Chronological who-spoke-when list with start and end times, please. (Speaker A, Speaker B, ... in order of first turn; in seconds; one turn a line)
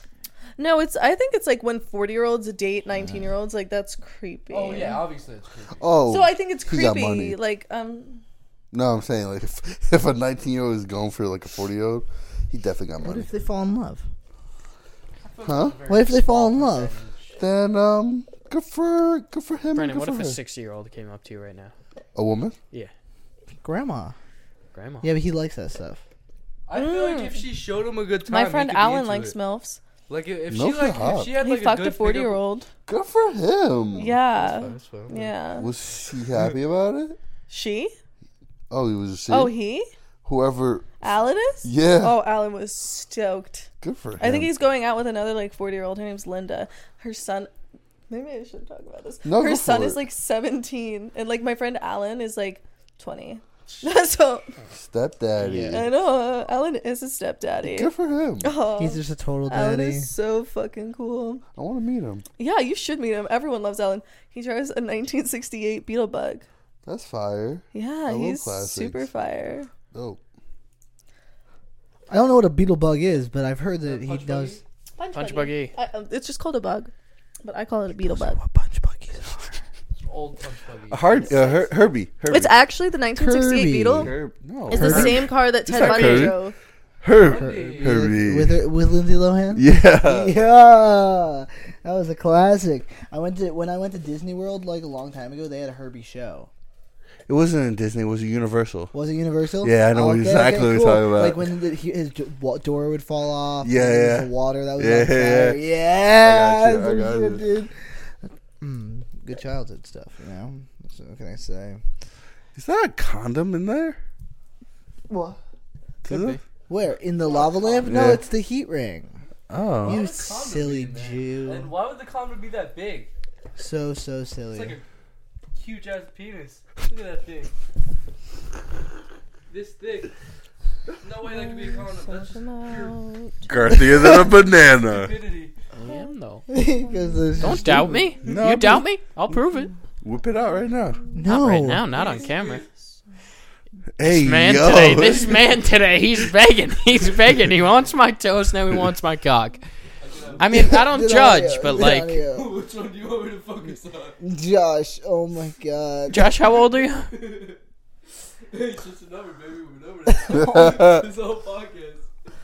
Speaker A: 0.6-5.0
Speaker B: 4.5-5.9
Speaker C: 5.8-7.4
Speaker A: 6.1-8.2
Speaker C: 8.7-13.3
Speaker D: 13.0-14.1
Speaker B: 15.2-17.4
Speaker C: 15.4-15.8
Speaker D: 15.9-16.9
Speaker C: 17.4-20.4
Speaker E: 19.7-21.7
Speaker C: 22.1-22.6
Speaker D: 23.6-24.1
Speaker E: 24.7-25.1
Speaker D: 25.0-26.0
Speaker B: 26.7-29.4
Speaker A: 26.7-27.5
Speaker A: 28.3-29.8
Speaker B: 30.1-32.4
Speaker C: 30.5-31.4
Speaker A: 31.4-32.7
Speaker C: 32.9-34.1
Speaker A: 34.0-35.7
Speaker B: 34.3-35.3
Speaker C: 35.5-37.2
Speaker A: 37.5-37.9
Speaker C: 38.7-39.5
Speaker A: 39.3-39.9
Speaker C: 40.2-41.1
Speaker A: 41.0-47.5
Speaker C: 41.6-42.2
Speaker C: 43.8-44.5
Speaker A: 48.1-54.5
Speaker C: 49.2-50.0
Speaker C: 54.7-56.0
Speaker E: 55.4-55.9
Speaker A: 55.7-61.4
Speaker C: 57.6-58.5
Speaker D: 58.8-60.1
Speaker C: 61.5-62.2
Speaker A: 62.4-66.5
Speaker C: 66.8-69.1
Speaker A: 67.7-69.7
Speaker C: 69.9-70.2
Speaker D: 72.1-74.6
Speaker B: 73.8-74.6
Speaker A: 75.0-76.9
Speaker E: 75.1-75.8
Speaker A: 77.4-78.4
Speaker D: 78.0-79.5
Speaker B: 80.0-81.4
Speaker C: 80.9-82.5
Speaker A: 81.3-81.7
Speaker A: 82.3-84.1
Speaker D: 83.2-84.2
Speaker C: 84.0-86.4
Speaker A: 84.7-86.5
Speaker E: 84.7-85.1
Speaker D: 84.7-85.2
Speaker E: 85.8-86.3
Speaker C: 87.0-88.6
Speaker B: 87.2-88.2
Speaker D: 87.3-96.5
Speaker C: 89.5-90.3
Speaker C: 97.3-98.9
Speaker D: 98.9-111.8
Speaker C: 99.6-101.4
Speaker C: 103.6-105.6
Speaker C: 106.2-107.5
Speaker C: 112.5-114.0
Speaker D: 115.1-115.4
Speaker C: 116.0-116.4
Speaker E: 116.1-116.4
Speaker D: 116.7-119.2
Speaker B: 117.3-118.2
Speaker C: 117.8-118.2
Speaker C: 119.5-120.0
Speaker B: 119.8-123.1
Speaker D: 119.8-121.7
Speaker D: 123.6-124.8
Speaker B: 124.5-124.8
Speaker B: 125.5-127.5
Speaker B: 129.5-130.1
Speaker B: 131.0-133.0
Speaker A: 131.3-133.7
Speaker C: 133.5-135.1
Speaker B: 134.7-135.5
Speaker E: 135.7-136.5
Speaker D: 136.5-138.1
Speaker A: 136.8-137.2
Speaker E: 137.4-139.7
Speaker C: 138.2-138.9
Speaker C: 140.0-141.0
Speaker D: 141.1-141.8
Speaker E: 141.2-142.7
Speaker B: 141.9-142.8
Speaker C: 144.0-145.4
Speaker E: 144.0-149.6
Speaker B: 144.9-145.4
Speaker B: 150.0-150.8
Speaker E: 150.4-152.2
Speaker D: 150.5-152.5
Speaker B: 152.2-154.2
Speaker D: 154.2-156.3
Speaker E: 156.1-157.1
Speaker B: 157.1-157.6
Speaker B: 158.5-162.1
Speaker C: 160.4-161.0